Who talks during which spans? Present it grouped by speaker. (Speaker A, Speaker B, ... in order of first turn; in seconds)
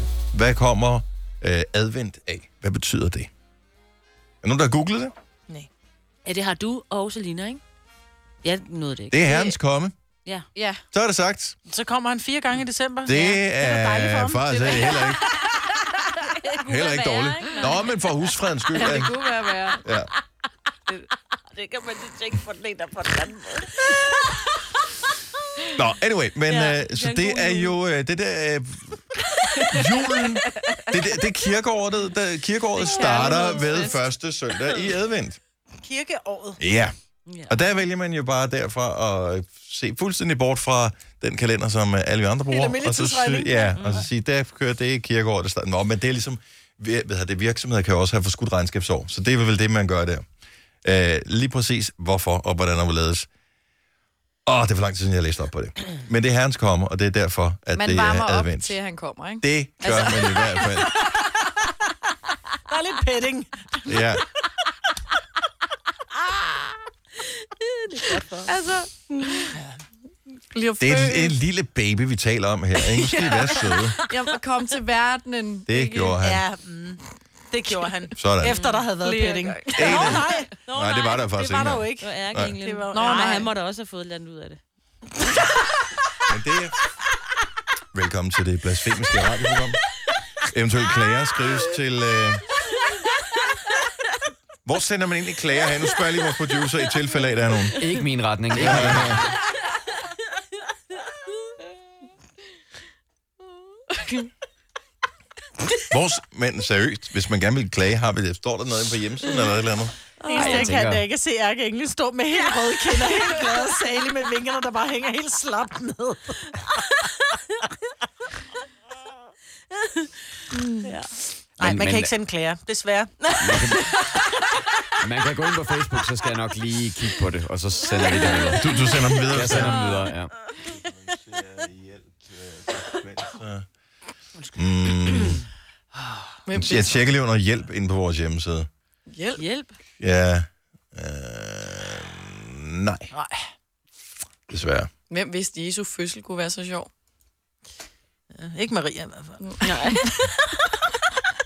Speaker A: 0.3-3.3, 4.4-5.1, 9.1-9.9, 10.9-11.5, 13.1-15.5, 16.6-19.3, 19.8-20.1, 25.8-29.1, 29.6-35.4, 36.6-36.9, 37.5-50.2, 50.8-53.3, 54.5-58.8, 59.4-61.0, 63.9-64.2, 70.8-74.0, 75.7-76.4, 78.2-78.5, 79.7-82.5, 86.3-86.8, 87.9-89.8, 90.4-92.4, 94.6-97.9, 98.5-99.3, 105.9-110.0, 128.5-129.8, 130.9-133.7, 134.5-135.4, 136.5-138.7, 140.0-143.1, 144.5-144.9
Speaker B: 6.2-7.6, 8.4-9.6, 14.8-18.0, 20.9-25.2, 26.5-27.8, 29.4-29.8, 32.8-34.0, 37.3-37.6, 43.7-44.0, 67.4-68.5, 78.4-80.1, 80.6-81.3, 82.0-84.6, 110.2-110.6, 117.3-117.6, 120.8-121.2, 129.6-130.1, 134.8-135.4, 139.3-139.8, 149.6-150.4
Speaker C: 10.5-10.8, 18.7-19.8, 57.7-59.5, 68.4-69.5, 70.5-71.4, 74.1-76.1, 79.5-79.8, 82.9-83.4, 120.5-120.9, 136.5-137.0, 139.1-139.4, 145.1-146.9
Speaker D: 11.7-15.1, 32.9-33.9, 35.7-36.6, 42.5-43.9, 59.8-61.9, 62.7-64.1, 66.3-66.7, 73.4-73.9, 76.2-80.6, 81.2-83.3, 110.3-116.9, 121.6-123.6, 143.1-143.4, 148.3-149.5
Speaker E: 97.8-99.3, 110.3-111.0, 121.6-122.1, 123.3-124.0, 125.0-130.3